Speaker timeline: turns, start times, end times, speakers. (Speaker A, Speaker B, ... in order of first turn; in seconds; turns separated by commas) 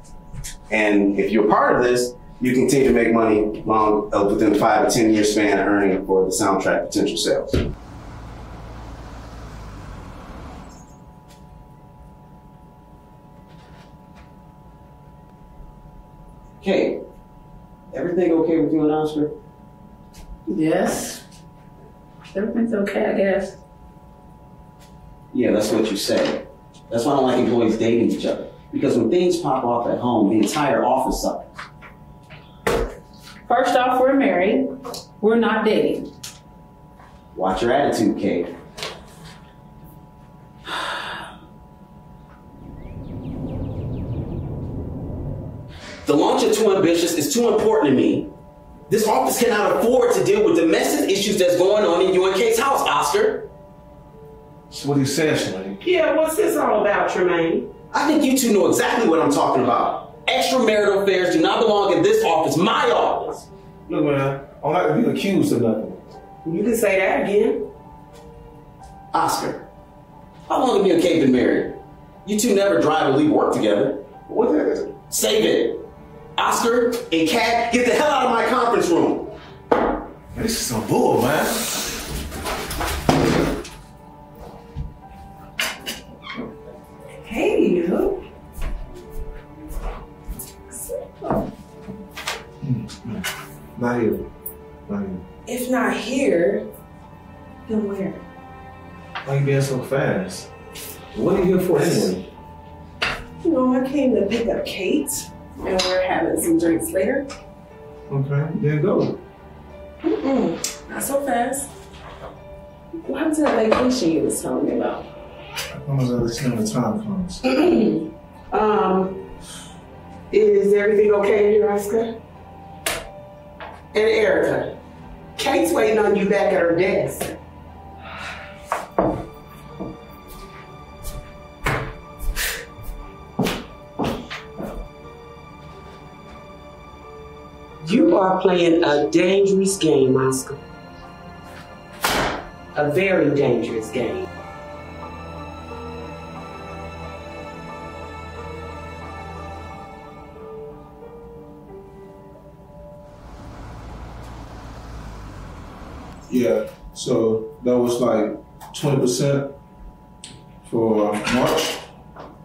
Speaker A: 0.7-7.6, Speaker A: 16.6-17.0, Speaker A: 17.9-19.3, Speaker B: 20.5-21.2, Speaker B: 22.3-23.6, Speaker A: 25.3-31.5, Speaker B: 33.5-34.7, Speaker B: 35.2-36.1, Speaker A: 37.3-38.5, Speaker A: 46.0-48.3, Speaker A: 48.9-53.5, Speaker C: 54.7-55.8, Speaker D: 55.8-57.7, Speaker A: 57.9-63.5, Speaker C: 63.9-66.0, Speaker D: 66.4-67.7, Speaker A: 69.1-69.7, Speaker A: 70.5-75.8, Speaker A: 76.4-79.3, Speaker C: 80.3-81.8, Speaker E: 87.2-88.2, Speaker E: 90.7-91.5, Speaker C: 92.6-94.3, Speaker C: 94.9-95.3, Speaker E: 95.5-96.7, Speaker E: 97.7-98.2, Speaker C: 99.2-100.5, Speaker C: 101.2-102.2, Speaker A: 101.5-102.0, Speaker E: 103.4-107.3, Speaker C: 108.1-109.2, Speaker E: 110.0-111.7, Speaker E: 113.0-115.1, Speaker C: 115.7-117.4, Speaker D: 117.4-119.2, Speaker D: 120.3-122.2, Speaker D: 123.9-124.8, Speaker D: 125.4-127.3, Speaker D: 137.8-140.6, Speaker D: 142.7-144.3, Speaker C: 156.3-159.6, Speaker C: 160.6-161.9